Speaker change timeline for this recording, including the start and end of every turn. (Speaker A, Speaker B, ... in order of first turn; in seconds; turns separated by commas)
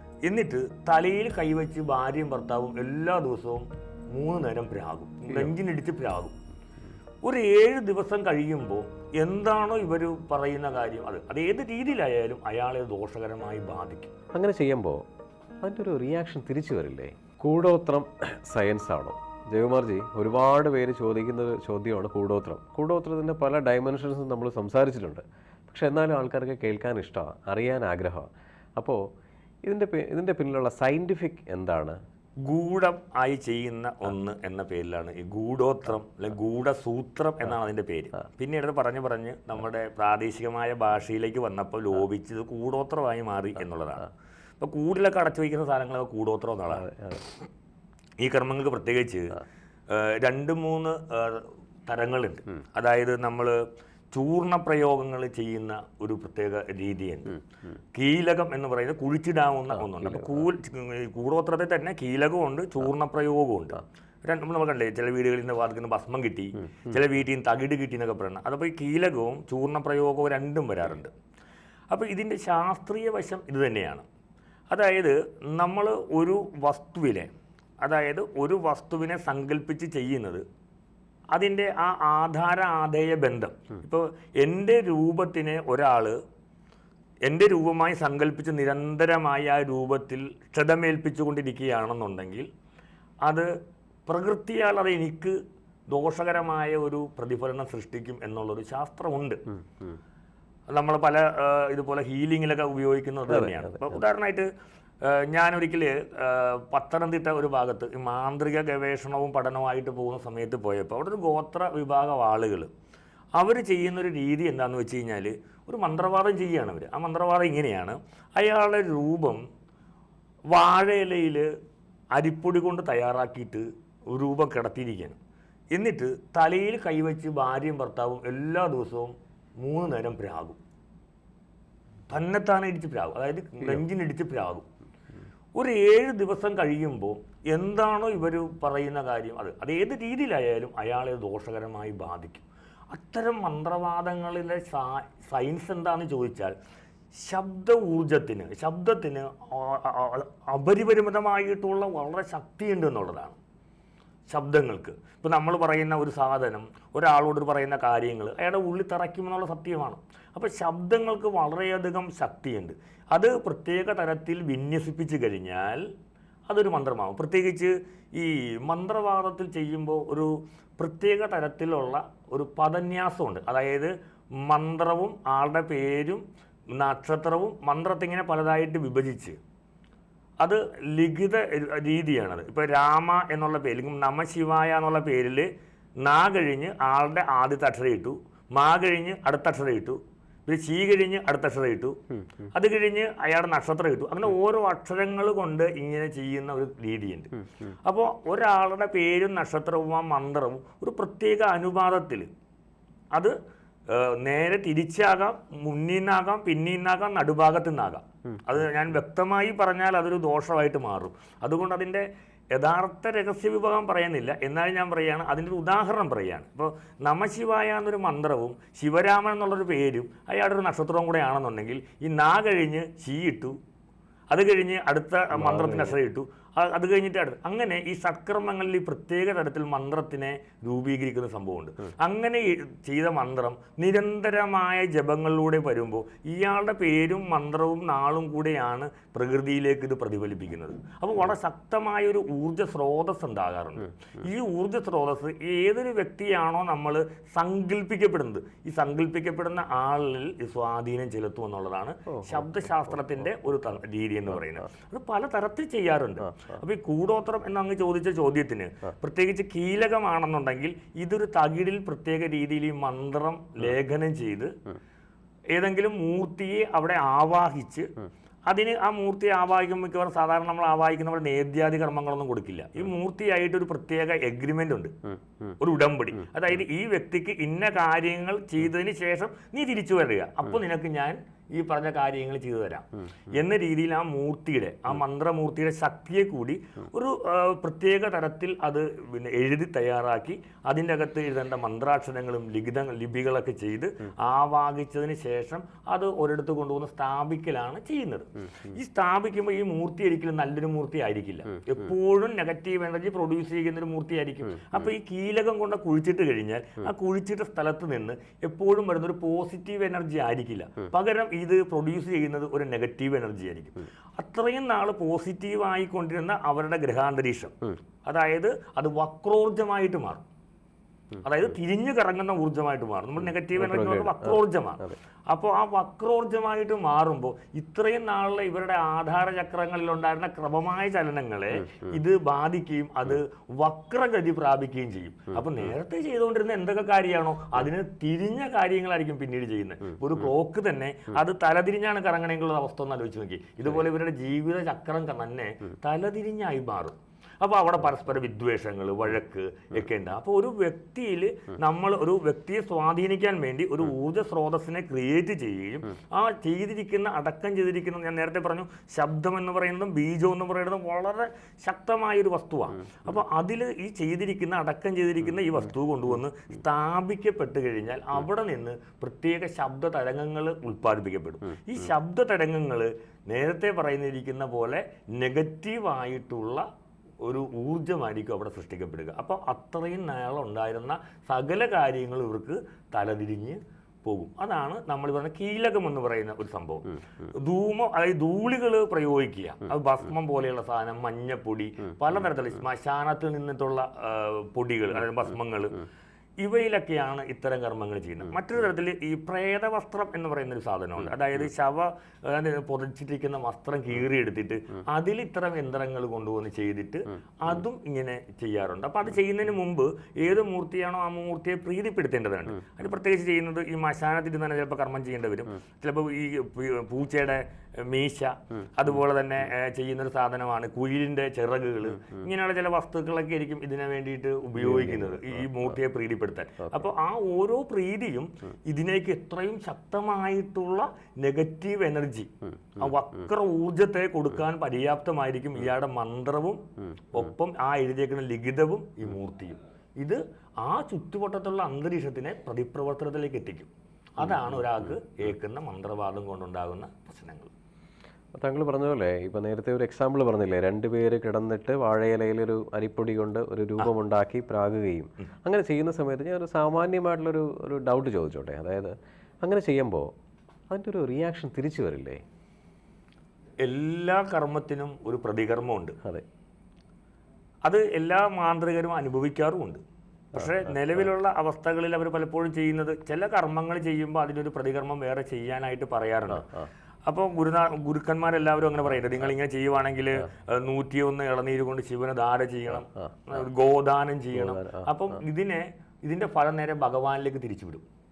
Speaker A: 0.2-6.3, Speaker B: 5.3-5.5, Speaker A: 7.2-14.1, Speaker B: 14.3-15.0, Speaker B: 15.6-28.3, Speaker B: 29.6-32.0, Speaker A: 32.5-44.1, Speaker A: 44.6-46.8, Speaker B: 46.7-47.3, Speaker A: 48.2-53.6, Speaker A: 54.1-57.4, Speaker A: 57.9-71.1, Speaker B: 59.9-60.4, Speaker A: 71.9-74.0, Speaker A: 74.7-77.3, Speaker A: 77.8-80.4, Speaker A: 81.3-86.2, Speaker A: 87.2-92.5, Speaker A: 94.1-95.3, Speaker A: 95.9-99.4, Speaker A: 100.7-104.5, Speaker B: 103.3-104.0, Speaker A: 105.0-112.7, Speaker A: 113.3-119.4, Speaker A: 120.5-121.5, Speaker A: 122.1-125.2, Speaker A: 125.7-130.6, Speaker A: 132.1-134.7, Speaker A: 135.6-146.5, Speaker A: 147.1-153.4, Speaker A: 154.3-165.9, Speaker A: 166.5-176.2, Speaker A: 176.7-179.4, Speaker A: 180.4-185.5, Speaker A: 186.0-192.0, Speaker A: 192.5-202.3, Speaker A: 203.9-223.6, Speaker A: 224.3-264.6, Speaker B: 225.3-226.0, Speaker B: 252.2-252.9, Speaker A: 265.5-267.9, Speaker A: 268.5-275.0, Speaker A: 275.6-320.2, Speaker A: 321.2-376.6, Speaker B: 323.5-325.0, Speaker A: 377.2-395.8, Speaker A: 396.4-447.5, Speaker B: 424.6-425.5, Speaker B: 444.3-444.7, Speaker B: 448.4-460.1, Speaker B: 460.7-462.2, Speaker A: 463.6-466.0, Speaker A: 467.6-469.8, Speaker A: 470.3-476.5, Speaker B: 470.4-470.7, Speaker B: 476.3-476.7, Speaker A: 477.1-487.8, Speaker B: 482.9-483.3, Speaker B: 484.3-485.1